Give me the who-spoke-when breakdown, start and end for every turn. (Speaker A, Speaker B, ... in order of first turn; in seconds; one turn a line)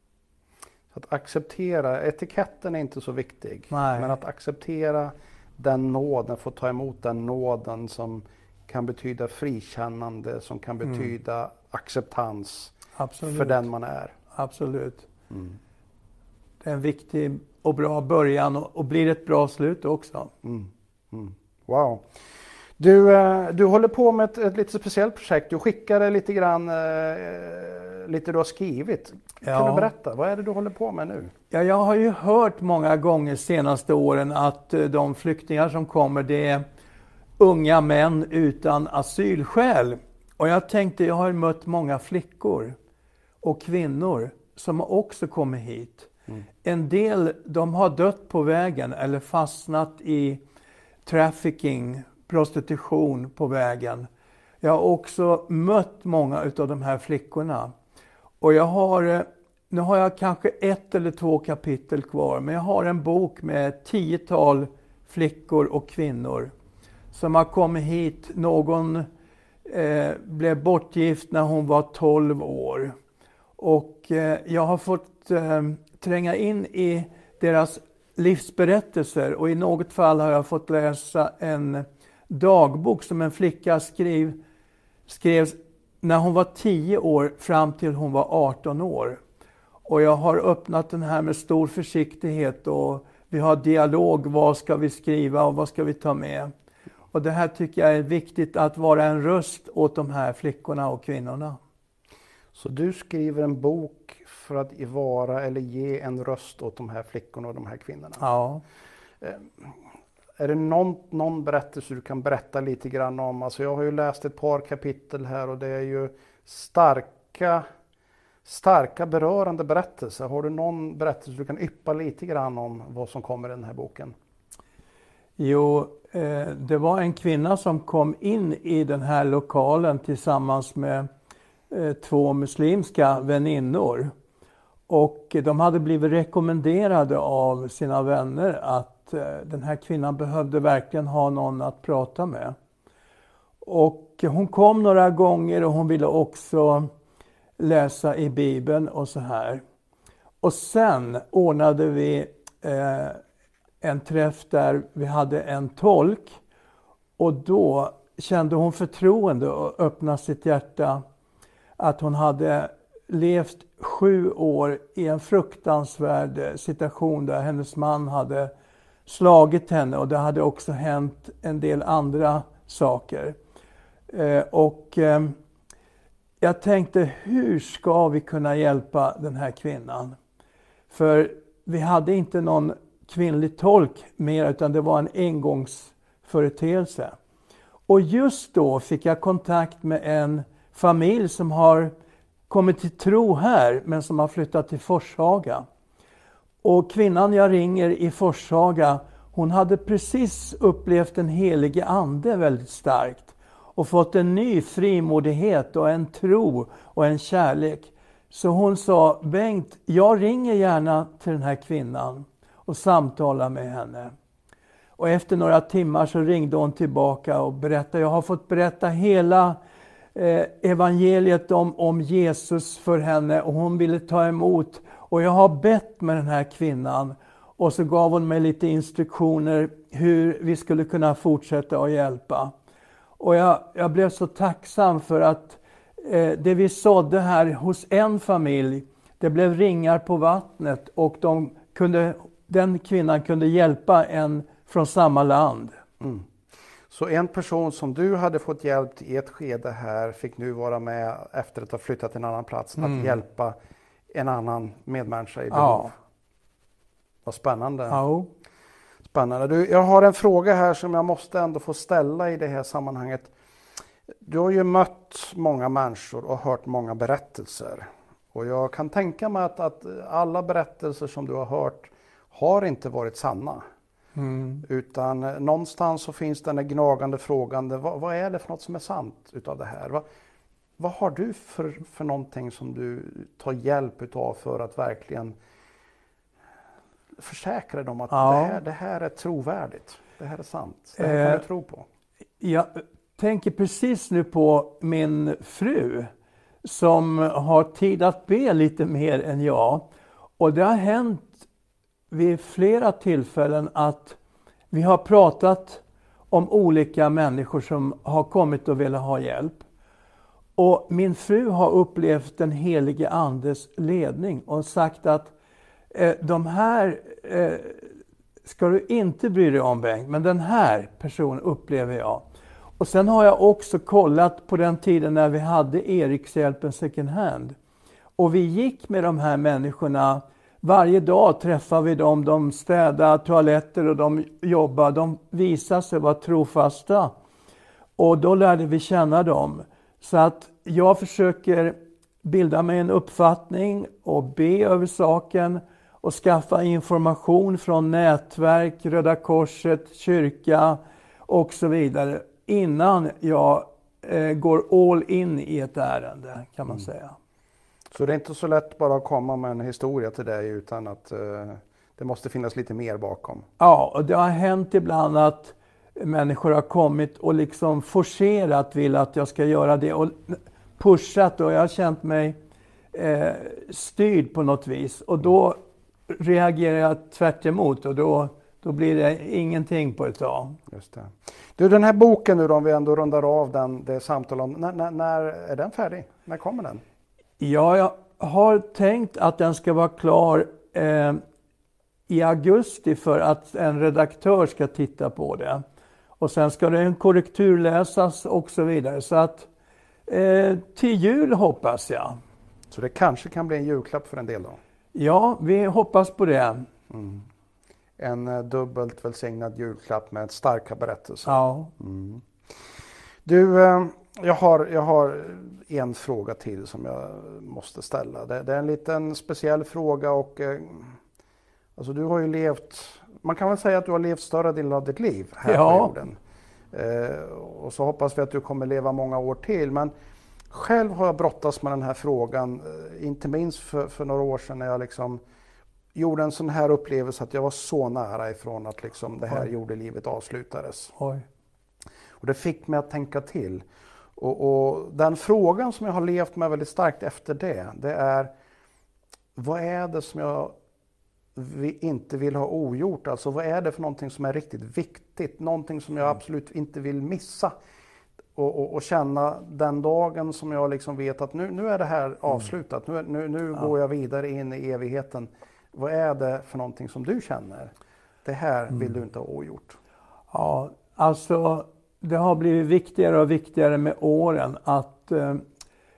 Speaker A: 0.9-14.2
Speaker B: 3.7-4.1
Speaker B: 13.0-13.6
Speaker B: 14.3-15.1
Speaker A: 15.3-15.6
Speaker B: 16.6-20.3
Speaker A: 20.4-22.1
Speaker A: 22.8-31.3
Speaker B: 29.4-29.9
Speaker B: 31.5-36.6
Speaker B: 37.4-42.8
Speaker B: 43.4-46.1
Speaker B: 46.6-50.4
Speaker B: 51.0-54.1
Speaker B: 54.6-57.7
Speaker B: 58.4-66.5
Speaker B: 67.1-69.0
Speaker B: 69.6-72.9
Speaker B: 73.6-84.4
Speaker B: 85.1-89.2
Speaker B: 89.8-96.5
Speaker B: 97.1-101.6
Speaker A: 102.5-108.2
Speaker B: 108.2-108.6
Speaker A: 109.2-109.7
Speaker A: 110.4-117.6
Speaker A: 118.4-124.1
Speaker B: 125.4-131.1
Speaker B: 131.7-134.1
Speaker B: 134.9-142.6
Speaker B: 143.6-146.9
Speaker B: 147.6-149.6
Speaker B: 150.4-153.2
Speaker B: 153.8-156.4
Speaker B: 157.2-161.0
Speaker B: 161.8-168.5
Speaker B: 169.1-173.4
Speaker B: 174.1-175.3
Speaker B: 176.4-180.2
Speaker B: 180.9-187.2
Speaker B: 187.9-191.9
Speaker B: 192.5-195.7
Speaker B: 196.6-214.1
Speaker B: 215.0-219.6
Speaker B: 220.1-232.5
Speaker B: 233.2-245.8
Speaker A: 246.0-246.2
Speaker A: 246.9-253.6
Speaker B: 252.8-253.2
Speaker A: 254.1-255.9
Speaker B: 255.5-255.9
Speaker A: 257.2-258.0
Speaker B: 257.9-258.3
Speaker A: 259.1-263.3
Speaker A: 264.2-273.6
Speaker B: 274.1-274.6
Speaker A: 274.6-280.0
Speaker A: 280.8-285.3
Speaker A: 287.2-291.9
Speaker B: 288.1-288.6
Speaker B: 291.0-291.4
Speaker B: 292.4-296.1
Speaker B: 296.6-299.9
Speaker B: 300.4-301.4
Speaker B: 302.1-304.2
Speaker B: 304.7-309.6
Speaker B: 310.6-315.3
Speaker B: 315.9-317.9
Speaker B: 318.4-322.2
Speaker B: 322.8-327.6
Speaker B: 328.2-337.1
Speaker B: 338.0-357.1
Speaker A: 357.9-363.5
Speaker B: 363.6-372.4
Speaker B: 372.9-380.6
Speaker A: 380.7-386.8
Speaker B: 387.4-391.2
Speaker B: 392.1-395.6
Speaker B: 396.2-399.5
Speaker B: 400.1-402.2
Speaker A: 402.7-404.6
Speaker B: 404.9-406.6
Speaker A: 406.9-407.2
Speaker A: 408.0-412.2
Speaker B: 411.2-411.7
Speaker A: 413.2-421.0
Speaker A: 421.8-426.2
Speaker B: 425.4-425.9
Speaker A: 426.7-429.9
Speaker A: 430.5-435.2
Speaker A: 435.9-440.9
Speaker B: 441.0-441.2
Speaker A: 442.2-443.6
Speaker A: 444.2-448.3
Speaker A: 449.4-450.5
Speaker A: 451.4-457.5
Speaker A: 458.3-467.7
Speaker A: 468.2-469.8
Speaker B: 470.3-475.4